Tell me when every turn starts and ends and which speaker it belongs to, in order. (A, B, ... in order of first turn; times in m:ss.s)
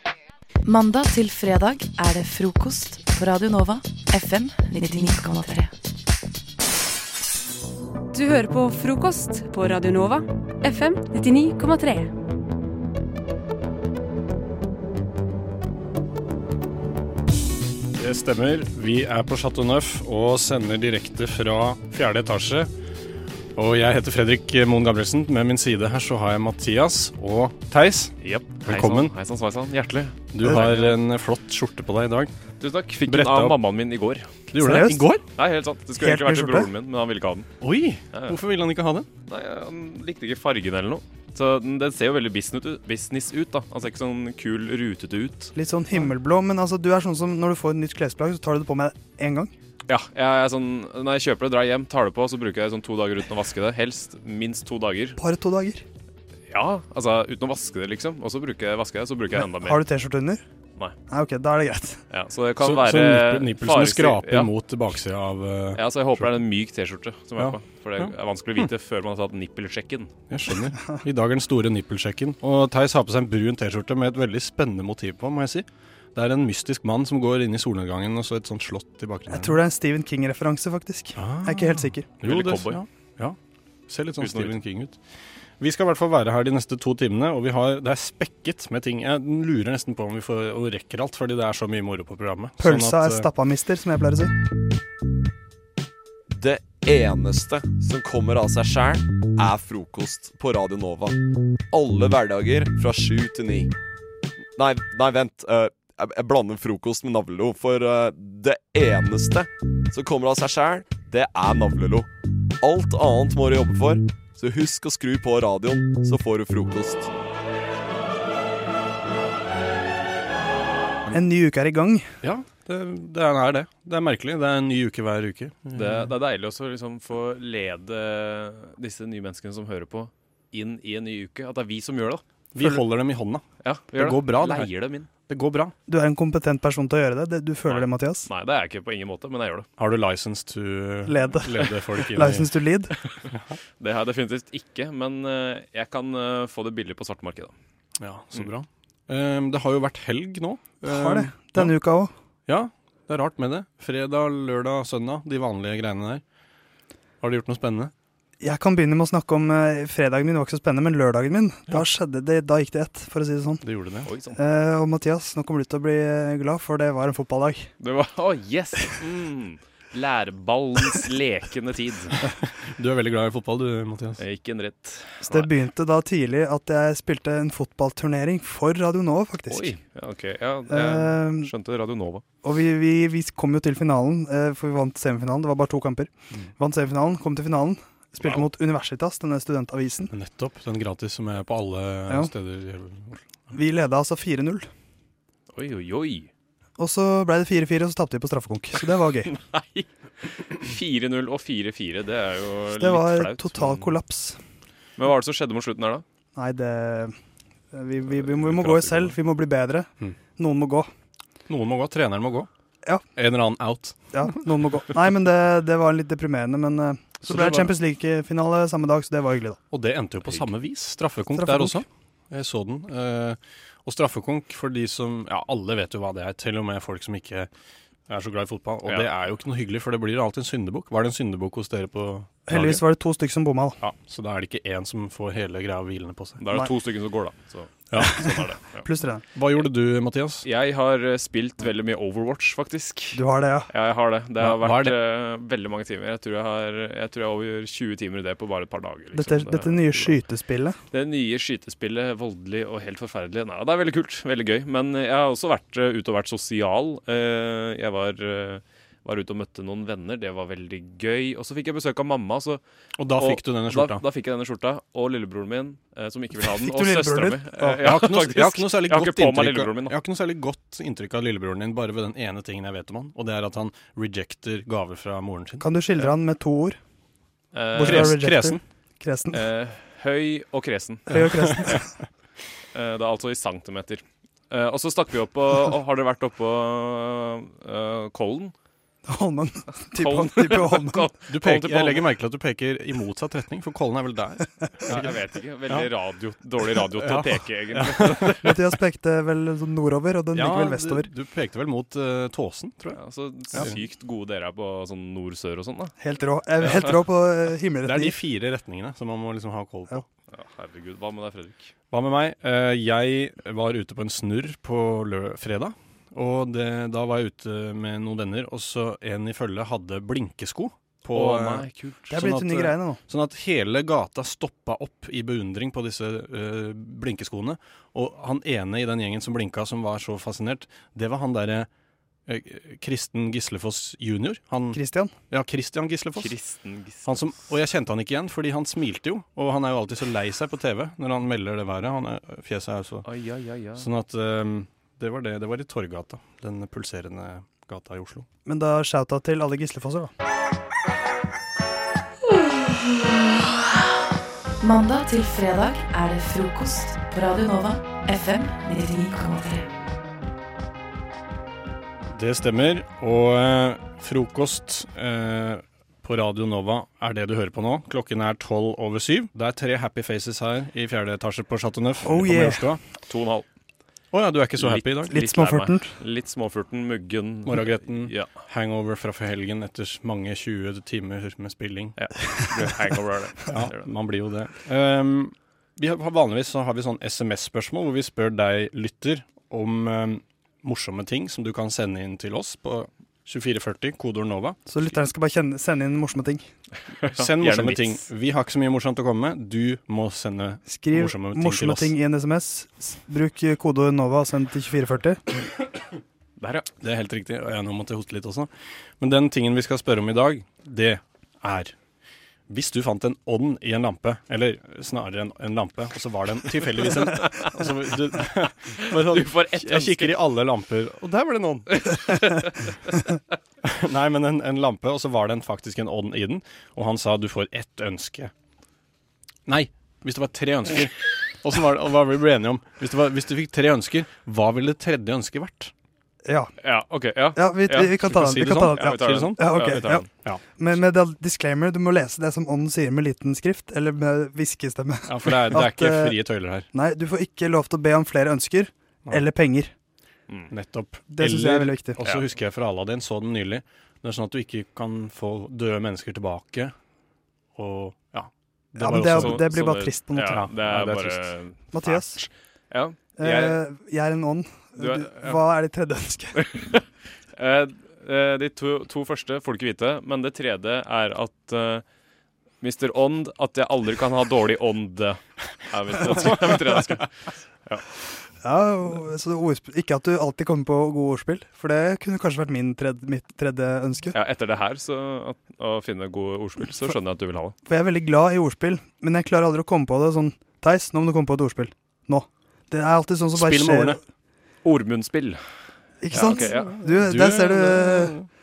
0:00.6-0:05.7 A
0:08.1-0:12.1 B
0:18.0-0:22.7 C
0:23.6-0:29.1 C
0:28.2-0:30.9 D
0:30.3-0:32.3 C
0:32.6-0:34.3 D
0:33.1-0:33.6 C
0:34.5-0:35.2 C
0:34.6-0:35.1 E
0:35.4-0:37.5 D
0:36.0-0:36.7 E
0:37.6-0:39.1 C
0:39.3-0:45.5 D
0:45.6-0:49.5 E
0:49.9-0:55.2 D
0:55.2-0:55.8 E
0:56.5-0:59.8 D
0:59.4-1:00.4 E
1:01.1-1:02.0 E
1:02.1-1:04.5 D
1:02.6-1:06.3 C
1:05.8-1:10.1 D
1:07.4-1:08.7 C
1:10.3-1:19.6 C
1:19.3-1:22.1 E
1:21.2-1:23.4 C
1:22.2-1:22.8 D
1:23.9-1:25.0 C
1:24.2-1:24.6 D
1:25.6-1:33.3 C
1:32.6-1:34.3 E
1:36.3-1:41.2 F
1:41.7-1:43.7 F
1:44.6-1:52.1 F
1:52.6-1:57.1 F
2:01.1-2:02.1 E
2:02.2-2:06.1 C
2:05.7-2:12.7 D
2:12.5-2:15.8 C
2:13.6-2:15.1 D
2:15.9-2:18.3 E
2:17.7-2:19.7 D
2:19.8-2:22.5 C
2:21.1-2:22.9 E
2:23.8-2:27.5 D
2:28.0-2:31.7 C
2:30.9-2:32.1 E
2:32.5-2:36.2 C
2:37.2-2:37.9 C
2:38.4-2:43.6 E
2:43.6-2:44.1 C
2:44.1-2:44.4 D
2:44.4-2:47.7 E
2:47.8-2:52.2 D
2:52.3-2:54.2 C
2:54.2-2:55.5 D
2:55.2-2:59.7 E
2:59.5-3:02.2 D
3:00.7-3:01.5 E
3:02.4-3:10.1 E
3:10.1-3:13.2 C
3:13.5-3:14.7 E
3:15.5-3:16.3 D
3:16.8-3:19.3 E
3:19.3-3:23.9 D
3:22.8-3:24.4 E
3:25.0-3:26.0 D
3:26.4-3:27.2 E
3:27.7-3:30.9 E
3:28.1-3:29.2 D
3:31.5-3:32.5 C
3:33.2-3:34.0 C
3:34.1-3:39.6 E
3:37.3-3:37.8 C
3:39.7-3:47.5 C
3:41.4-3:41.8 E
3:48.1-3:52.8 C
3:52.5-3:53.8 E
3:53.8-3:56.4 C
3:56.4-3:58.9 D
3:57.9-3:58.2 C
3:58.8-3:59.2 E
3:59.4-4:00.5 C
4:00.4-4:10.1 D
4:03.1-4:03.7 E
4:04.4-4:05.0 C
4:09.1-4:10.8 E
4:10.9-4:22.6 D
4:23.0-4:24.0 C
4:23.2-4:30.0 D
4:26.5-4:27.8 E
4:27.8-4:35.7 C
4:35.6-4:36.8 E
4:37.5-4:38.2 D
4:37.8-4:39.4 E
4:37.8-4:38.6 C
4:39.3-4:41.2 D
4:41.1-4:41.9 E
4:42.7-4:48.5 D
4:49.1-4:51.1 E
4:49.9-4:52.0 D
4:51.3-4:55.1 C
4:54.8-4:58.5 D
4:56.9-4:58.4 C
4:58.4-5:01.1 E
5:00.3-5:03.0 C
5:02.9-5:06.0 D
5:06.0-5:08.2 E
5:07.8-5:10.0 C
5:10.3-5:11.7 D
5:11.9-5:31.7 C
5:21.1-5:22.2 D
5:22.1-5:23.0 E
5:32.3-5:36.3 C
5:34.7-5:35.1 E
5:36.2-5:37.2 D
5:37.0-5:43.1 C
5:43.0-5:43.9 D
5:43.8-5:48.3 C
5:48.5-5:50.1 E
5:52.4-5:53.1 A
5:54.6-5:59.7 A
6:02.1-6:12.8 C
6:12.0-6:12.6 E
6:13.1-6:13.5 D
6:14.1-6:15.1 C
6:14.6-6:18.3 D
6:15.1-6:15.9 E
6:17.5-6:22.0 C
6:22.0-6:23.9 D
6:23.5-6:35.0 C
6:34.7-6:36.4 E
6:37.0-6:38.0 D
6:37.1-6:42.0 C
6:40.7-6:45.2 E
6:46.4-6:46.7 D
6:46.8-6:51.8 C
6:52.5-7:01.9 C
6:57.1-6:57.5 D
6:58.7-7:00.2 D
7:01.7-7:03.1 D
7:03.6-7:08.3 C
7:09.5-7:15.7 C
7:16.2-7:16.5 E
7:16.6-7:18.1 D
7:17.4-7:20.1 E
7:18.0-7:20.4 C
7:18.6-7:20.1 D
7:20.6-7:26.2 E
7:25.1-7:26.7 C
7:26.7-7:29.7 E
7:30.5-7:36.7 C
7:31.1-7:32.0 E
7:32.0-7:32.3 D
7:37.6-7:39.5 C
7:38.8-7:40.5 E
7:39.0-7:43.6 D
7:40.2-7:41.3 C
7:41.7-7:42.2 E
7:43.2-7:46.4 E
7:44.8-7:45.4 D
7:46.4-7:51.8 D
7:52.6-7:57.1 D
7:56.1-7:56.4 C
7:58.4-8:04.2 E
8:04.1-8:07.6 D
8:07.7-8:14.0 E
8:13.3-8:14.0 C
8:14.6-8:15.4 D
8:16.0-8:18.2 E
8:16.1-8:18.3 C
8:16.1-8:16.7 D